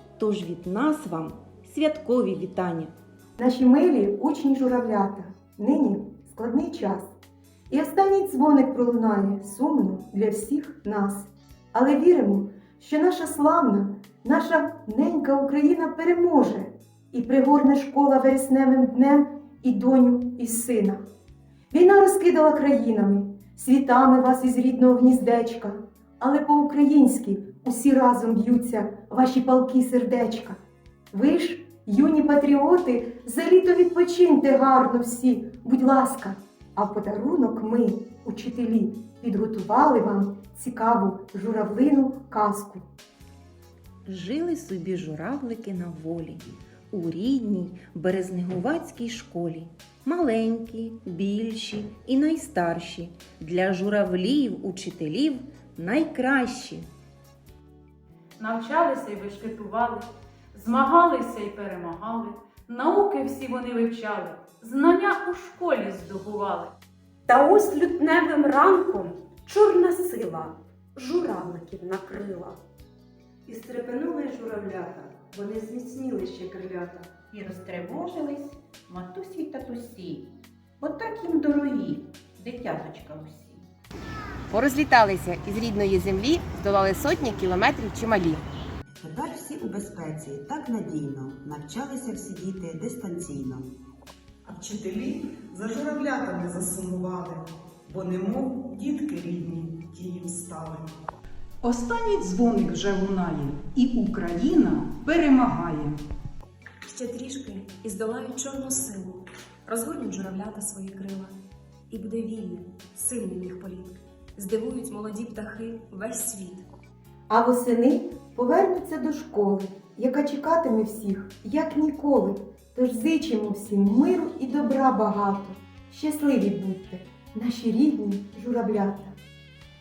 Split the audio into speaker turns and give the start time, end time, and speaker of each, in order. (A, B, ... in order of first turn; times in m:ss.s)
0:00.2-0:02.9 A
0:03.4-0:07.1 B
0:07.7-0:21.0 B
0:21.7-0:30.6 B
0:31.1-0:42.8 B
0:44.1-0:56.9 A
0:58.4-1:06.8 C
1:07.3-1:12.6 D
1:13.5-1:17.3 E
1:17.3-1:20.3 F
1:20.8-1:23.6 F
1:24.5-1:28.4 G
1:29.0-1:33.7 H
1:34.4-1:40.9 I
1:41.6-1:46.0 J
1:46.9-1:51.4 K
1:51.9-1:56.7 K
1:57.3-2:09.2 B